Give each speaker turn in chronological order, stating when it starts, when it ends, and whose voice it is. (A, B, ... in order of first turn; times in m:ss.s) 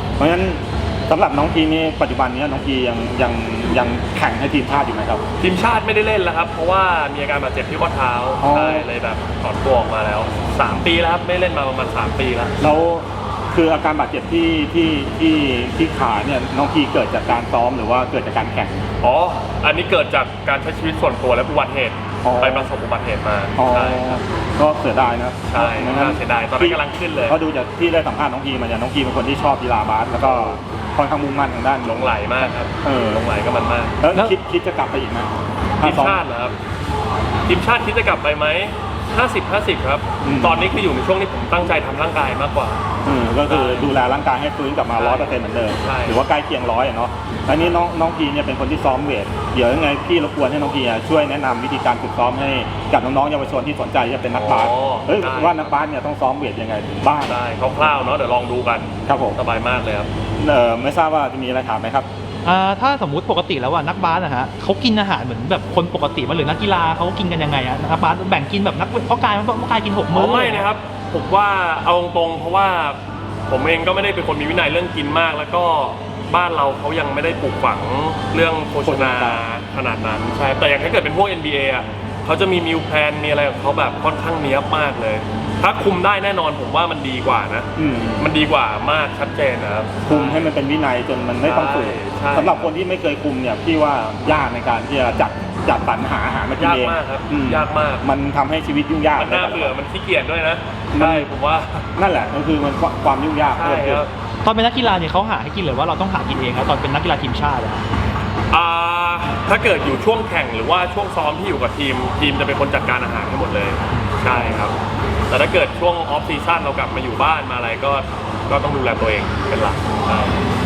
0:00.2-0:05.2 A
0:05.4-0:12.6 B
0:08.4-0:08.9 A
0:12.6-0:18.8 A
0:19.0-0:24.2 B
0:22.2-0:22.7 A
0:23.6-0:32.0 A
0:25.5-0:27.4 B
0:30.2-0:30.6 B
0:31.8-0:34.0 B
0:32.8-0:33.2 A
0:34.0-0:36.2 A
0:35.8-0:36.6 B
0:37.5-0:42.8 B
0:40.2-0:40.7 A
0:43.0-0:57.3 A
0:43.4-0:43.9 B
0:45.0-0:46.2 B
0:54.3-0:55.8 B
0:57.2-1:00.1 B
0:59.1-0:59.4 A
1:00.4-1:02.1 A
1:02.4-1:10.7 C
1:10.1-1:30.5 B
1:18.8-1:19.4 A
1:27.8-1:28.3 A
1:30.1-1:39.8 A
1:31.4-1:32.7 B
1:36.6-1:38.1 B
1:39.2-1:41.8 B
1:40.9-1:41.3 A
1:42.0-1:44.0 A
1:43.5-1:44.1 B
1:44.4-1:47.8 C
1:48.5-1:54.8 B
1:54.3-1:54.7 A
1:55.3-2:00.4 B